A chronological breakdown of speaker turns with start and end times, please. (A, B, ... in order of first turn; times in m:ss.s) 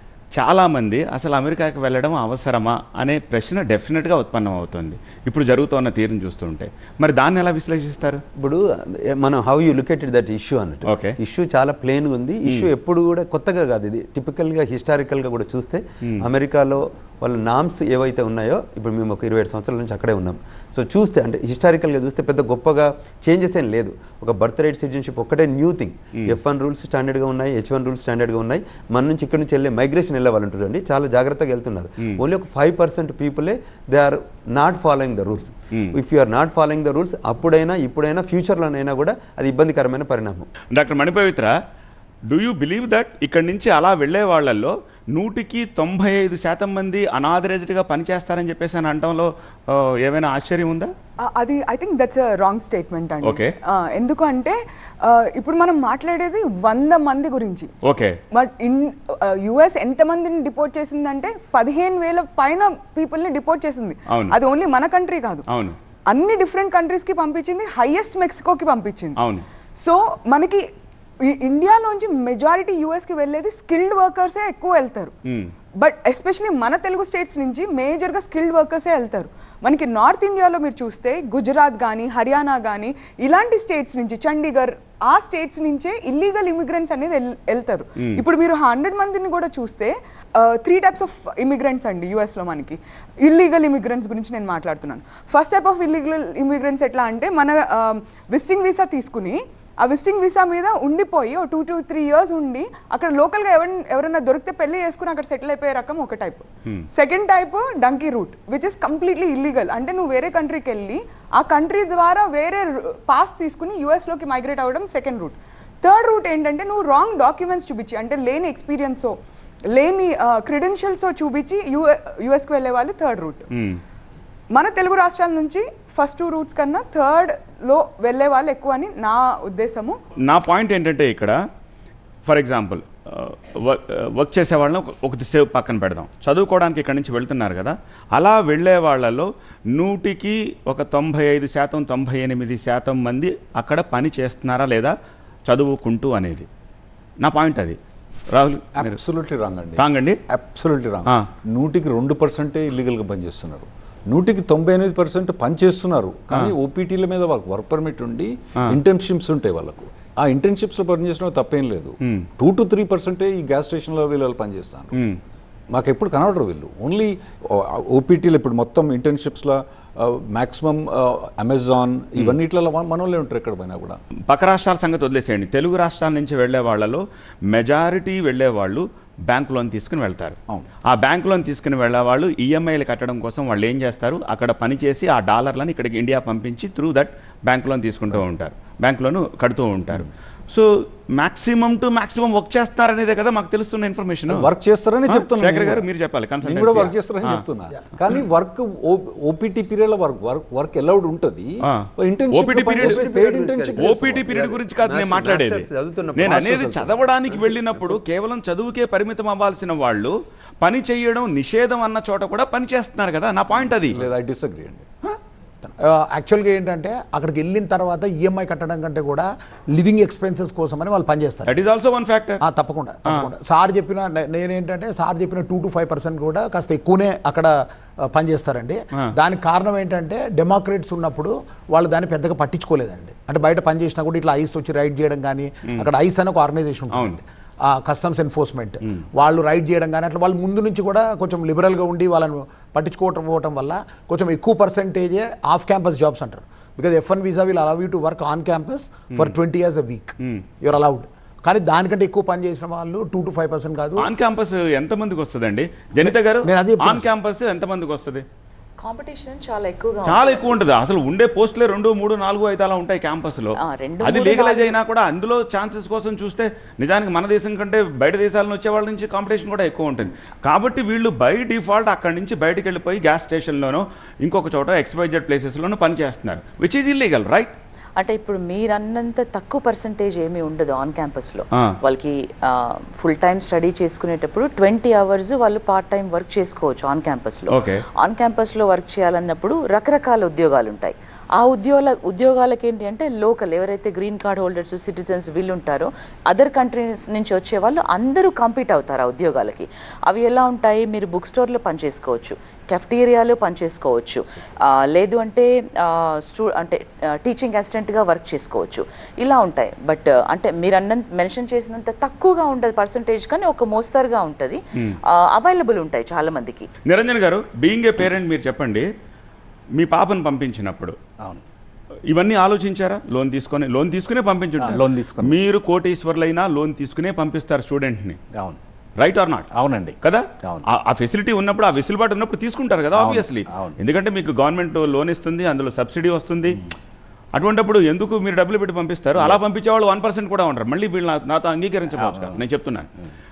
0:00.4-0:08.2 A
0:08.4-0:40.5 B
0:10.8-0:11.1 A
0:40.7-0:41.5 A
0:42.3-0:50.9 A
0:51.3-0:57.7 C
0:53.2-0:53.5 A
0:57.8-0:58.2 A
0:58.3-1:05.4 C
1:04.1-1:04.3 A
1:05.5-1:05.8 A
1:06.1-1:09.2 C
1:09.2-1:09.4 A
1:09.8-1:10.6 C
1:11.2-1:15.1 C
1:15.3-1:15.5 A
1:15.8-1:59.1 C
1:59.7-2:03.5 C
2:03.5-2:03.8 A
2:04.5-2:10.0 C
2:10.2-2:11.4 A
2:12.2-2:24.9 A
2:25.5-2:26.5 A
2:27.2-2:27.8 A
2:28.3-2:29.0 A
2:28.8-2:44.9 D
2:29.8-2:30.2 A
2:44.9-2:45.2 A
2:45.7-2:54.0 D
2:54.3-3:00.4 A
3:00.9-3:14.5 A
3:14.3-3:15.9 D
3:15.1-3:17.4 A
3:16.4-3:24.4 D
3:21.7-3:23.0 A
3:22.9-3:23.7 B
3:23.8-3:34.0 A
3:24.3-3:28.0 B
3:26.2-3:26.7 D
3:33.9-3:34.8 D
3:35.8-3:41.5 E
3:41.5-3:42.4 A
3:42.4-3:47.5 E
3:48.1-4:14.1 E
3:56.9-3:57.2 A
4:14.0-4:18.2 A
4:16.0-4:17.1 E
4:18.8-4:20.6 F
4:20.0-4:37.5 A
4:23.6-4:24.7 F
4:38.0-5:16.7 F
4:47.5-4:47.8 A
5:16.8-5:18.9 A
5:19.8-5:21.0 A
5:22.1-5:28.2 A
5:24.6-5:25.4 G
5:29.0-5:29.5 A
5:29.5-5:30.6 G
5:30.0-5:36.6 A
5:32.9-5:33.8 G
5:37.3-5:42.9 A
5:42.0-5:42.4 G